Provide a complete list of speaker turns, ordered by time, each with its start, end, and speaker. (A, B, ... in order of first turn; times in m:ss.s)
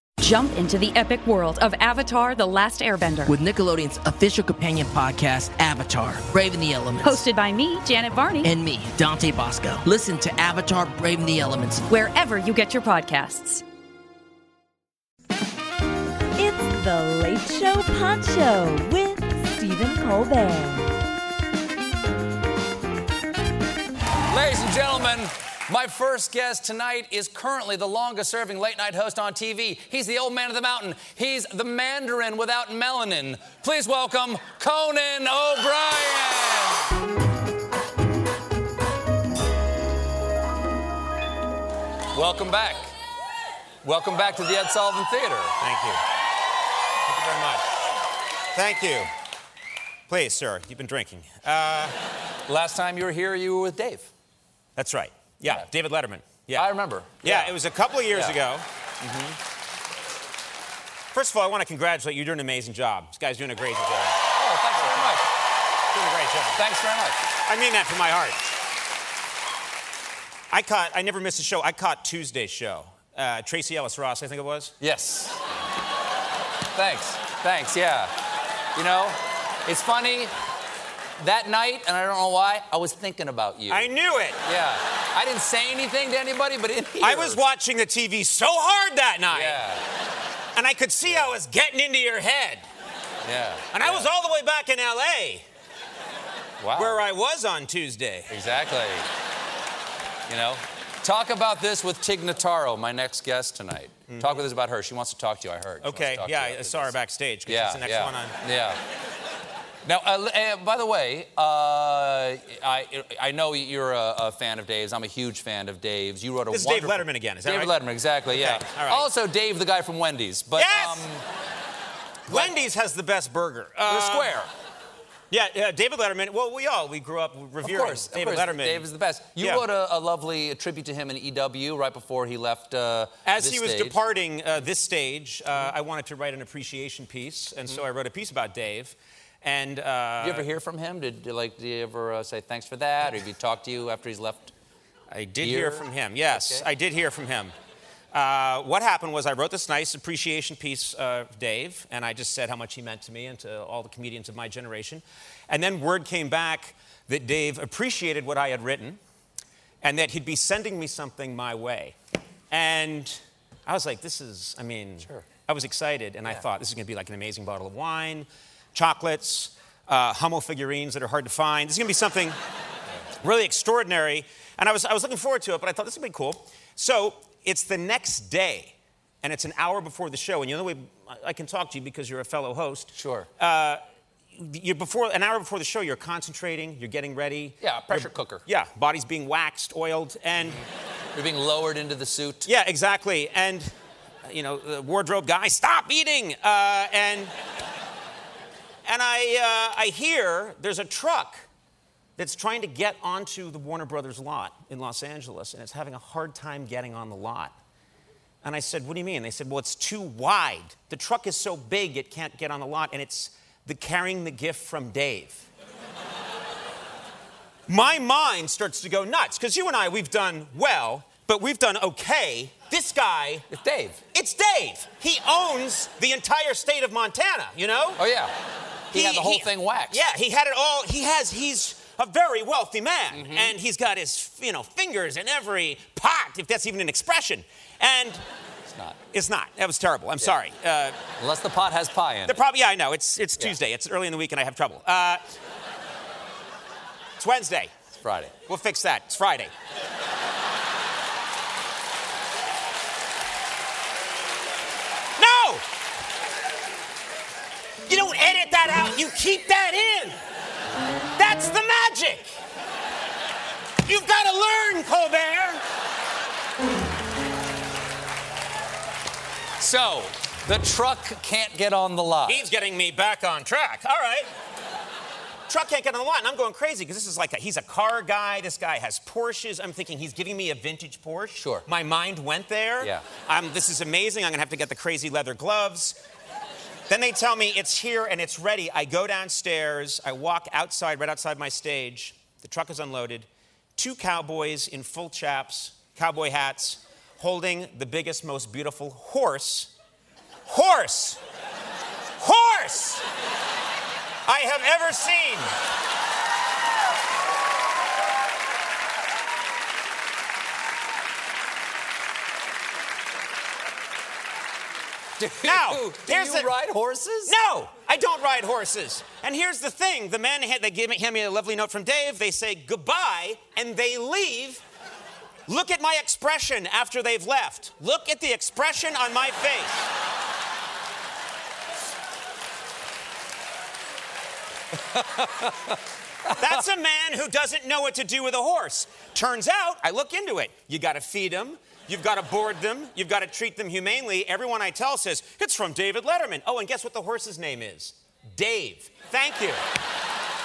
0:00.2-0:03.3 A
0:03.3-0:07.2 B
0:07.0-0:08.5 A
0:08.4-0:11.8 B
0:11.9-0:13.6 A
0:16.4-0:20.9 C
0:24.3-0:37.0 D
0:42.1-0:42.9 D
0:43.8-0:45.6 D
0:45.6-0:46.0 E
0:47.1-0:47.6 E
0:48.5-0:49.1 E
0:50.1-0:52.0 E
0:52.4-0:54.1 D
0:54.8-0:56.7 E
0:56.5-0:57.6 D
0:57.2-0:58.6 E
0:58.1-0:58.4 D
0:59.0-0:59.3 D
1:01.1-1:05.2 E
1:04.4-1:05.3 D
1:05.9-1:06.6 E
1:06.5-1:07.2 D
1:07.4-1:08.5 E
1:10.5-1:14.7 E
1:14.8-1:15.4 D
1:16.7-1:18.1 D
1:18.7-1:20.3 D
1:21.2-1:23.9 D
1:23.7-1:24.4 E
1:24.4-1:27.4 D
1:27.0-1:29.6 E
1:29.3-1:29.8 D
1:30.5-1:32.6 E
1:31.0-1:31.3 D
1:33.2-1:34.1 D
1:33.7-1:35.4 E
1:36.6-1:37.0 D
1:36.8-1:38.3 E
1:38.3-1:39.1 D
1:40.3-1:46.9 D
1:44.1-1:44.4 E
1:45.8-1:48.3 E
1:47.4-1:48.8 D
1:49.8-2:01.2 D
1:56.5-1:57.7 E
1:58.3-1:59.1 E
2:00.6-2:01.0 E
2:02.3-2:04.5 E
2:02.3-2:02.5 D
2:03.9-2:04.5 D
2:05.3-2:09.6 E
2:07.6-2:14.0 D
2:13.2-2:20.5 E
2:20.2-2:24.5 D
2:25.1-2:27.5 E
2:25.4-2:26.7 D
2:28.1-2:39.0 E
2:39.8-2:41.9 E
2:42.5-2:52.4 E
2:53.2-3:03.8 E
3:02.9-3:03.3 D
3:04.4-3:10.6 E
3:07.6-3:08.4 D
3:11.1-3:12.5 D
3:12.4-3:13.7 E
3:14.2-3:17.3 E
3:18.8-3:21.4 E
3:22.2-3:27.5 E
3:28.4-3:35.5 E
3:37.7-3:43.5 E
3:43.5-3:44.0 D
3:44.1-3:48.0 E
3:48.0-3:48.4 D
3:48.9-3:50.0 D
3:48.9-3:58.2 E
3:53.1-3:53.5 D
3:58.7-3:59.0 D
3:59.1-4:01.0 E
4:01.2-4:02.4 D
4:02.2-4:05.2 E
4:07.2-4:07.7 E
4:08.0-4:08.3 D
4:08.5-4:09.5 E
4:15.2-4:15.6 E
4:17.9-4:20.2 E
4:21.2-4:22.4 E
4:23.8-4:25.6 E
4:29.6-4:32.5 D
4:32.2-4:34.3 E
4:35.5-4:46.0 E
4:41.4-4:41.6 D
4:42.8-4:43.0 D
4:46.9-4:59.7 E
5:00.4-5:01.2 E
5:02.2-5:03.0 E
5:04.2-5:05.5 E
5:15.2-5:17.4 D
5:15.4-5:16.5 E
5:17.2-5:24.6 E
5:25.5-5:29.8 E
5:34.9-5:36.6 D
5:36.4-5:49.6 E